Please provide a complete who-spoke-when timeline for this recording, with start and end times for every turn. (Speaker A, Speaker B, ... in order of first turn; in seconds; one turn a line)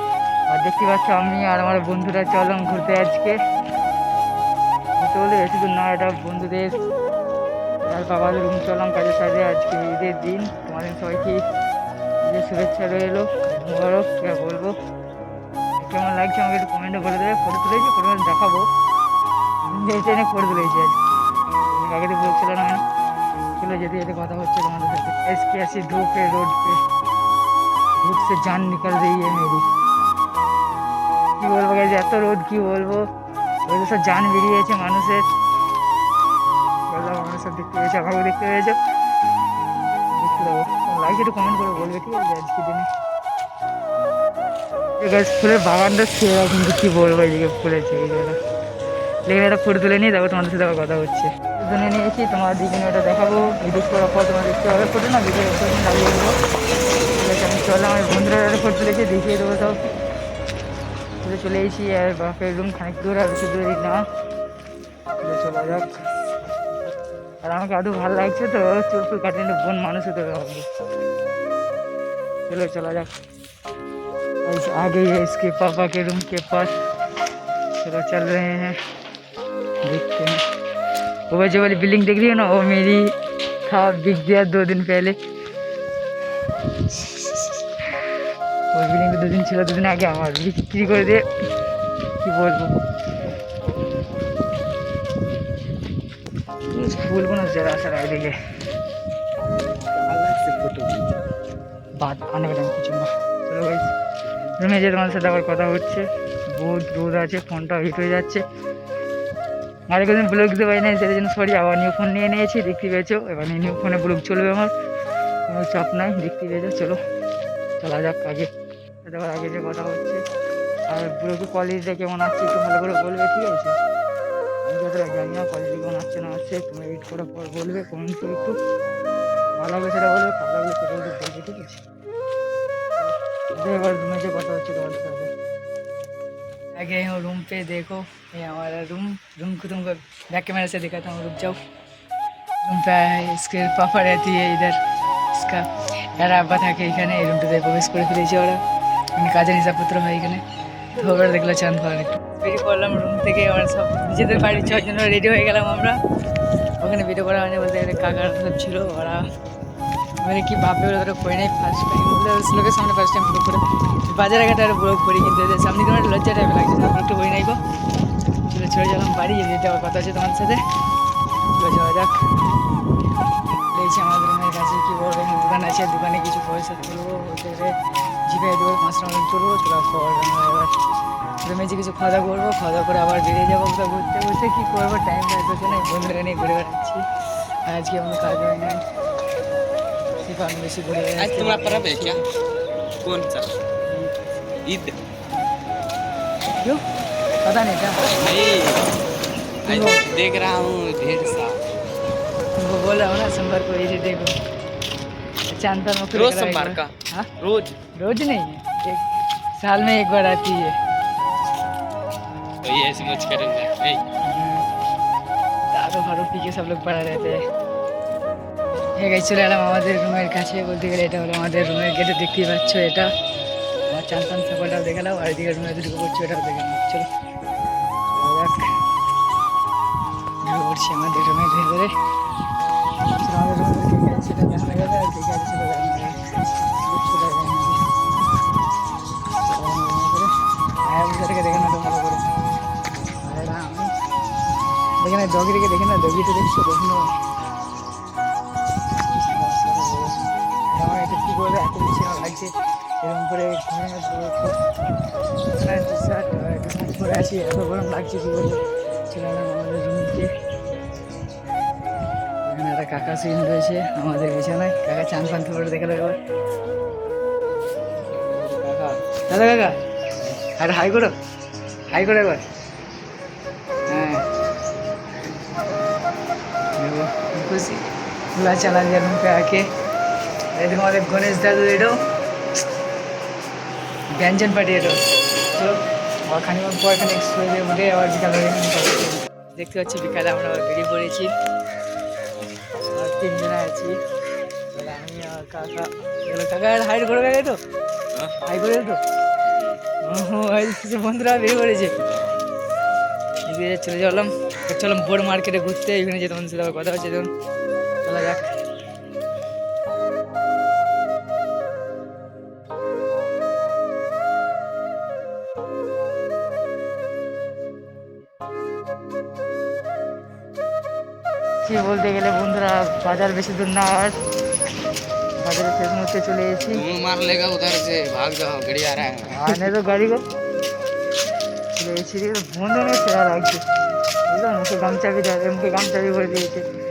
Speaker A: 0.5-3.4
Speaker A: 5.0-6.7
Speaker A: 7.8-11.4
Speaker A: 12.2-14.7
Speaker A: 15.8-18.7
Speaker A: 19.7-21.0
Speaker A: 21.7-22.8
Speaker A: 23.6-26.8
Speaker A: 28.0-29.6
Speaker A: 31.4-33.0
Speaker A: 33.7-35.2
Speaker A: 36.9-38.8
Speaker A: 40.1-42.9
Speaker A: 45.0-48.4
Speaker A: 49.3-56.4
Speaker A: 57.1-59.8
Speaker A: 61.2-64.0
Speaker A: 65.2-65.9
Speaker A: 67.4-70.7
Speaker A: 72.5-73.1
Speaker A: 74.4-76.7
Speaker A: 77.8-78.8
Speaker A: 79.8-80.4
Speaker A: 81.3-83.1
Speaker A: 83.7-85.2
Speaker A: 88.7-91.2
Speaker A: 92.2-92.7
Speaker A: 96.7-98.3
Speaker B: 100.0-101.0
Speaker A: 102.0-103.9
Speaker A: 104.6-108.4
Speaker A: 109.9-114.7
Speaker A: 115.5-117.0
Speaker A: 117.8-118.5
Speaker A: 119.0-120.2
Speaker A: 120.9-123.7
Speaker A: 124.6-128.6
Speaker A: 129.6-131.8
Speaker A: 133.0-135.3
Speaker A: 136.8-141.6
Speaker A: 142.6-144.8
Speaker A: 145.3-148.6
Speaker A: 149.2-150.4
Speaker A: 150.9-156.0
Speaker A: 156.8-159.2
Speaker A: 160.2-167.6
Speaker A: 168.5-170.6
Speaker A: 171.5-172.2
Speaker A: 173.7-177.7
Speaker A: 178.3-180.7
Speaker A: 181.4-187.0
Speaker A: 187.7-188.8
Speaker A: 190.2-192.2
Speaker B: 191.2-192.2
Speaker B: 193.0-193.6
Speaker B: 194.7-194.9
Speaker A: 197.4-198.0
Speaker B: 198.1-198.8
Speaker B: 199.6-201.6
Speaker A: 199.7-200.0
Speaker A: 202.6-204.3
Speaker A: 205.5-207.3
Speaker B: 206.1-206.9
Speaker B: 207.4-207.7
Speaker A: 207.9-209.0
Speaker A: 209.6-210.7
Speaker B: 212.6-214.0
Speaker A: 214.2-214.6
Speaker A: 215.7-217.4
Speaker A: 219.0-223.1
Speaker A: 223.9-227.1
Speaker A: 228.1-228.6
Speaker A: 230.4-231.9
Speaker A: 233.1-236.2
Speaker A: 236.8-237.8
Speaker A: 239.4-240.3
Speaker A: 240.8-242.2
Speaker A: 243.2-243.9
Speaker A: 245.0-247.1
Speaker A: 249.2-250.2
Speaker A: 250.7-252.5
Speaker A: 253.0-254.6
Speaker A: 255.6-258.6
Speaker A: 259.1-260.3
Speaker A: 262.4-266.2
Speaker A: 268.1-269.8
Speaker A: 270.4-271.1
Speaker A: 271.9-272.4
Speaker A: 273.9-274.2
Speaker A: 276.8-277.8
Speaker A: 278.3-279.6
Speaker A: 280.5-281.9
Speaker A: 284.1-285.0
Speaker A: 285.5-291.3
Speaker A: 292.9-293.9
Speaker A: 294.7-297.6
Speaker A: 298.4-299.0
Speaker B: 299.5-299.8
Speaker A: 300.0-302.0
Speaker A: 303.5-307.3
Speaker A: 308.0-308.4
Speaker A: 321.6-324.1
Speaker A: 325.4-326.8
Speaker B: 326.7-329.6
Speaker A: 329.3-330.2
Speaker A: 331.7-333.6
Speaker A: 334.3-336.6